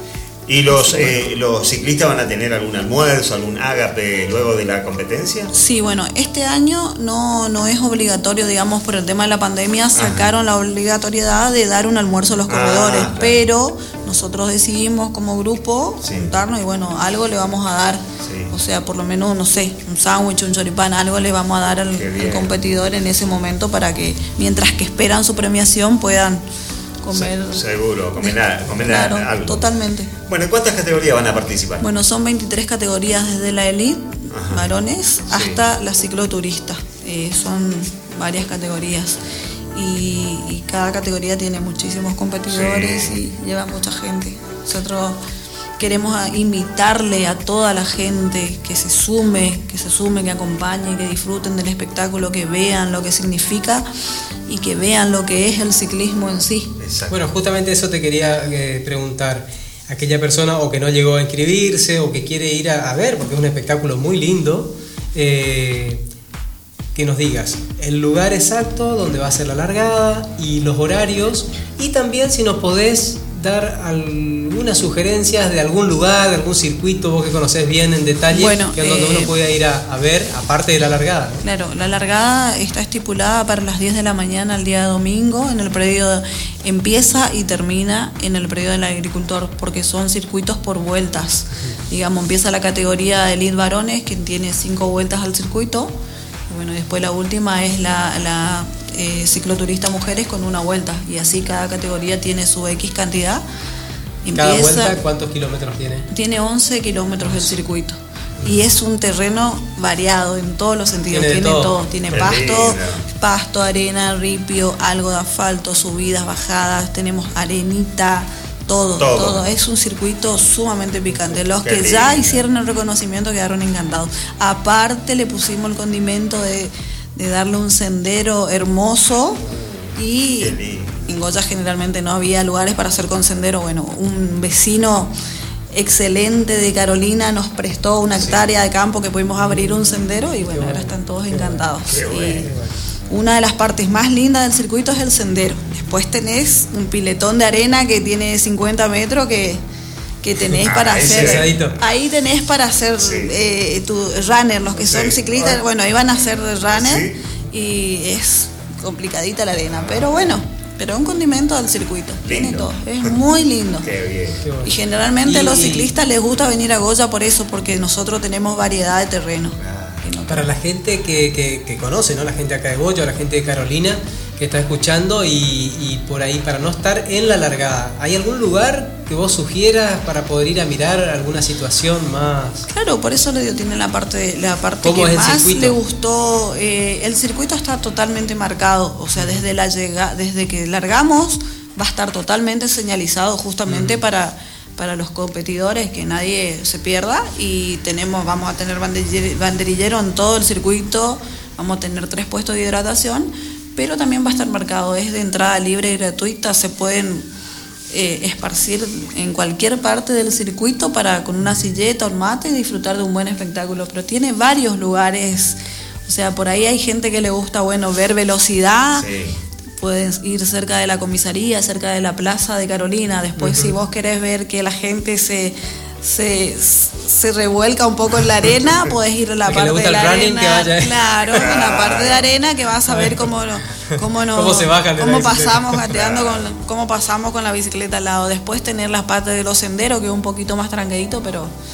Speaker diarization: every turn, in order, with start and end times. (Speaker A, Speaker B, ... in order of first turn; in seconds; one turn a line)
Speaker A: 0.5-5.5
Speaker B: 0.8-1.2
Speaker B: 5.5-26.4
Speaker A: 9.9-10.3
Speaker A: 12.5-13.4
Speaker A: 16.0-16.3
Speaker A: 18.2-18.5
Speaker A: 21.9-22.5
Speaker B: 27.0-27.6
Speaker A: 27.1-29.6
Speaker B: 28.2-30.1
Speaker A: 30.3-31.9
Speaker B: 31.8-45.2
Speaker A: 34.3-34.7
Speaker A: 35.3-35.6
Speaker A: 42.5-43.2
Speaker B: 45.8-53.9
Speaker B: 54.5-56.7
Speaker A: 56.8-57.2
Speaker C: 57.1-66.0
Speaker C: 67.0-81.4
Speaker B: 78.3-79.3
Speaker B: 81.4-96.0
Speaker B: 96.5-103.4
Speaker B: 104.2-105.0
Speaker C: 104.3-106.1
Speaker B: 106.1-129.4
Speaker C: 107.2-107.5
Speaker C: 111.1-111.8
Speaker A: 112.1-113.0
Speaker A: 119.0-119.4
Speaker A: 121.6-122.4
Speaker B: 130.0-130.6
Speaker A: 130.4-131.0
Speaker B: 131.1-135.1
Speaker B: 135.7-142.5
Speaker A: 138.2-138.4
Speaker C: 140.5-141.7
Speaker A: 141.9-142.5
Speaker C: 142.4-142.8
Speaker B: 143.1-149.6
Speaker B: 150.2-163.9
Speaker A: 150.6-151.5
Speaker C: 151.0-151.8
Speaker A: 153.0-153.3
Speaker A: 154.8-155.6
Speaker A: 156.7-157.2
Speaker A: 159.7-160.3
Speaker A: 162.2-163.2
Speaker A: 163.8-164.4
Speaker C: 164.4-165.9
Speaker B: 164.6-170.5
Speaker A: 169.6-170.1
Speaker C: 170.3-182.7
Speaker B: 182.7-207.3
Speaker C: 184.8-185.8
Speaker C: 193.7-194.0
Speaker B: 207.9-219.1
Speaker A: 218.9-219.4
Speaker B: 219.8-241.5
Speaker C: 223.4-223.8
Speaker A: 228.2-228.9
Speaker C: 229.5-231.5
Speaker A: 231.3-232.3
Speaker C: 232.9-233.3
Speaker C: 233.8-235.9
Speaker A: 235.9-236.5